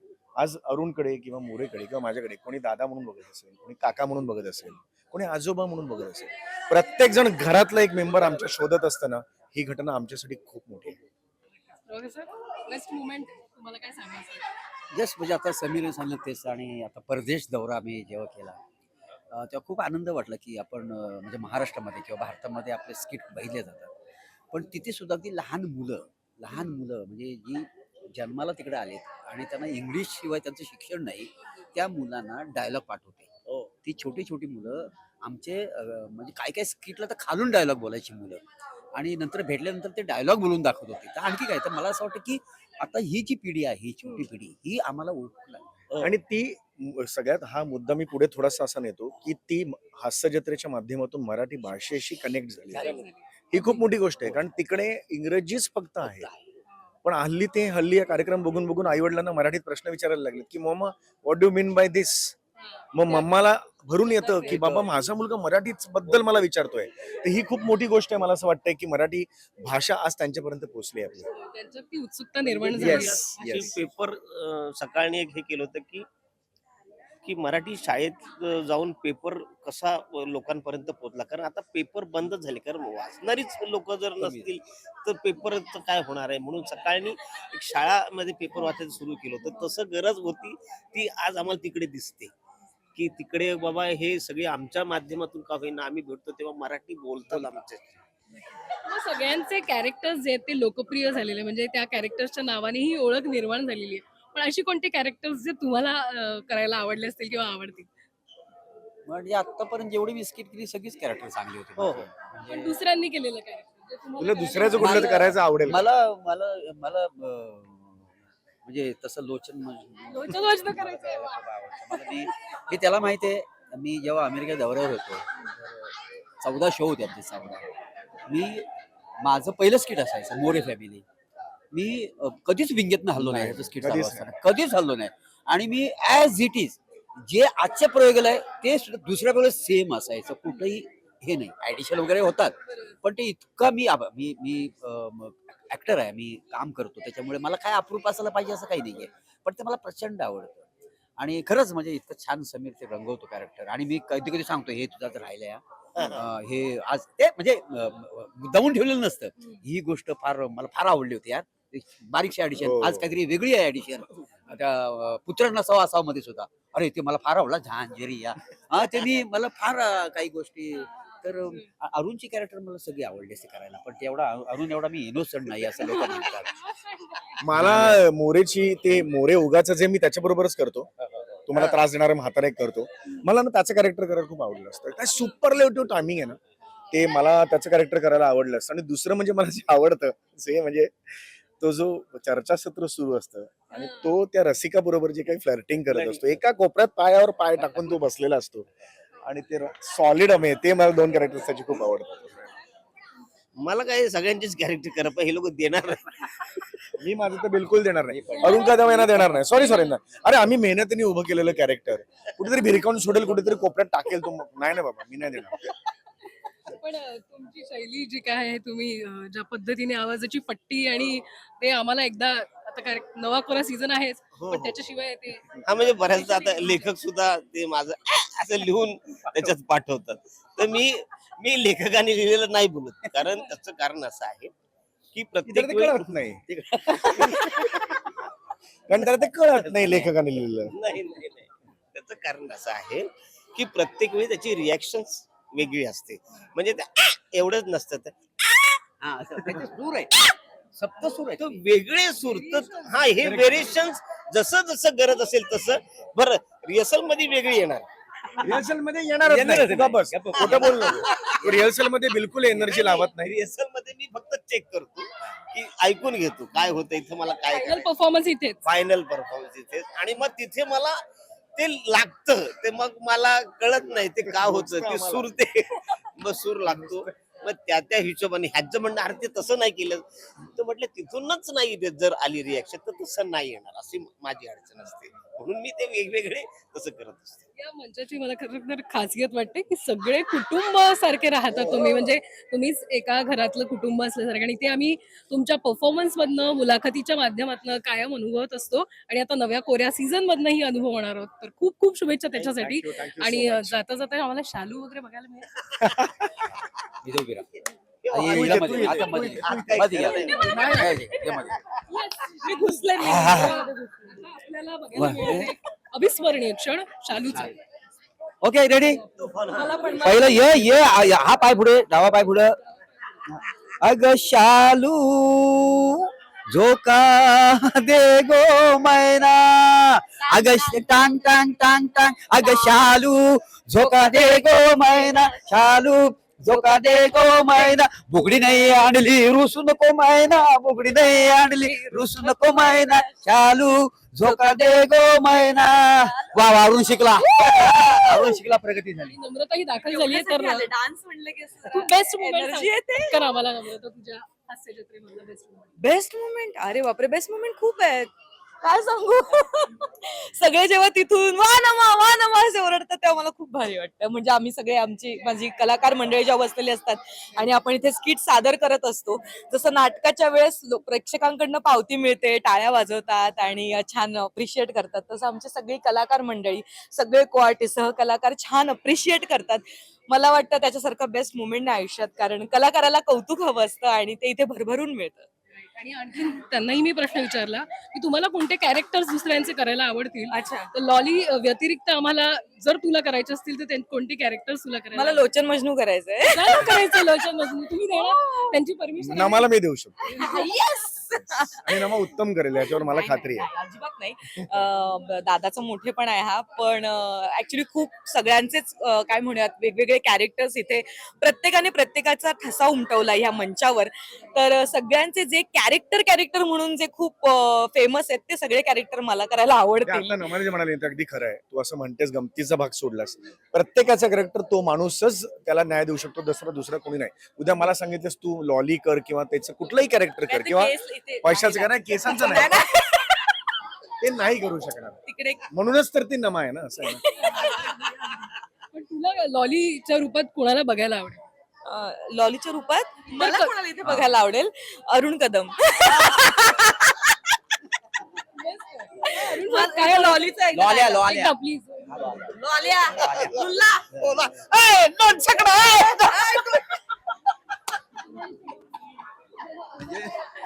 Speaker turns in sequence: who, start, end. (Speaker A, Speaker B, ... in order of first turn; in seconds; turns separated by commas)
Speaker A: 0.4-11.0, Speaker B: 11.9-14.5, Speaker C: 14.9-18.6, Speaker C: 19.3-23.9, Speaker C: 24.5-33.3, Speaker C: 33.8-38.4, Speaker C: 39.0-45.6, Speaker A: 46.0-56.3, Speaker B: 52.7-53.9, Speaker C: 56.0-56.3, Speaker A: 57.0-62.4, Speaker B: 62.6-63.3, Speaker A: 62.9-71.3, Speaker B: 64.2-64.6, Speaker C: 64.5-65.0, Speaker B: 71.3-73.8, Speaker D: 72.5-76.0, Speaker A: 72.8-73.8, Speaker D: 77.2-92.3, Speaker C: 84.2-84.5, Speaker D: 93.0-98.0, Speaker B: 98.7-107.9, Speaker C: 109.1-112.8, Speaker D: 111.8-112.1, Speaker B: 112.5-115.4, Speaker A: 114.2-115.9, Speaker C: 114.7-118.1, Speaker C: 118.7-127.7, Speaker B: 120.1-121.4, Speaker C: 128.3-128.7, Speaker C: 129.2-131.1, Speaker C: 131.7-150.6, Speaker A: 133.2-134.3, Speaker C: 151.2-176.6, Speaker D: 156.0-156.2, Speaker A: 162.6-163.1, Speaker B: 176.6-177.4, Speaker A: 177.4-180.9, Speaker C: 177.5-178.1, Speaker A: 181.5-186.4, Speaker A: 186.9-190.9, Speaker A: 191.6-198.7, Speaker D: 195.9-196.4, Speaker A: 199.3-202.5, Speaker D: 203.6-206.6, Speaker A: 207.0-215.7, Speaker C: 208.1-208.6, Speaker B: 208.4-209.9, Speaker B: 216.6-227.0, Speaker D: 224.4-224.8, Speaker D: 225.6-234.5, Speaker D: 235.1-236.2, Speaker A: 235.5-238.2, Speaker D: 236.9-237.5, Speaker A: 238.9-240.7, Speaker D: 239.8-240.1, Speaker D: 240.7-248.8, Speaker C: 249.0-251.6, Speaker D: 251.4-257.9, Speaker B: 252.6-252.9, Speaker A: 253.2-253.7, Speaker A: 258.4-263.4, Speaker D: 259.3-261.7, Speaker D: 262.5-267.9, Speaker B: 267.5-268.6, Speaker D: 268.7-271.0, Speaker D: 271.6-287.4, Speaker A: 274.2-275.3, Speaker A: 276.7-277.1, Speaker B: 287.6-305.5, Speaker A: 302.4-303.8, Speaker A: 305.8-306.5, Speaker C: 307.0-307.5, Speaker D: 308.0-310.8, Speaker C: 308.1-311.6, Speaker A: 308.2-309.7, Speaker E: 310.1-310.9, Speaker B: 310.3-310.9, Speaker B: 311.9-317.6, Speaker E: 312.4-314.1, Speaker C: 313.0-313.6, Speaker C: 314.9-315.5, Speaker C: 317.1-317.6, Speaker C: 318.4-319.0, Speaker D: 319.2-320.1, Speaker B: 319.5-320.3, Speaker E: 320.0-320.5, Speaker C: 320.0-322.6, Speaker C: 323.3-349.1, Speaker E: 330.3-330.8, Speaker E: 332.4-332.8, Speaker E: 333.9-334.3, Speaker E: 334.9-335.4, Speaker E: 341.7-343.2, Speaker E: 344.2-344.6, Speaker E: 345.9-346.4, Speaker E: 347.2-348.4, Speaker B: 349.0-350.7, Speaker E: 349.7-353.2, Speaker B: 351.7-355.7, Speaker E: 355.8-385.3, Speaker B: 385.7-395.2, Speaker E: 390.3-390.7, Speaker E: 394.9-397.4, Speaker B: 396.3-399.5, Speaker E: 397.9-398.6, Speaker A: 399.0-400.0, Speaker E: 400.0-402.0, Speaker B: 400.1-400.4, Speaker A: 401.2-403.5, Speaker E: 402.6-420.4, Speaker A: 419.8-432.7, Speaker E: 430.2-433.3, Speaker A: 434.0-435.0, Speaker E: 435.1-435.5, Speaker A: 435.5-437.0, Speaker E: 436.9-437.9, Speaker B: 437.2-441.2, Speaker E: 441.7-447.2, Speaker B: 443.1-443.6, Speaker C: 443.8-444.1, Speaker B: 448.4-450.4, Speaker E: 449.0-451.3, Speaker C: 450.5-451.3, Speaker B: 451.0-452.1, Speaker C: 451.9-452.2, Speaker E: 452.2-454.3, Speaker C: 453.0-453.4, Speaker C: 454.0-454.6, Speaker A: 454.4-456.1, Speaker E: 455.6-456.7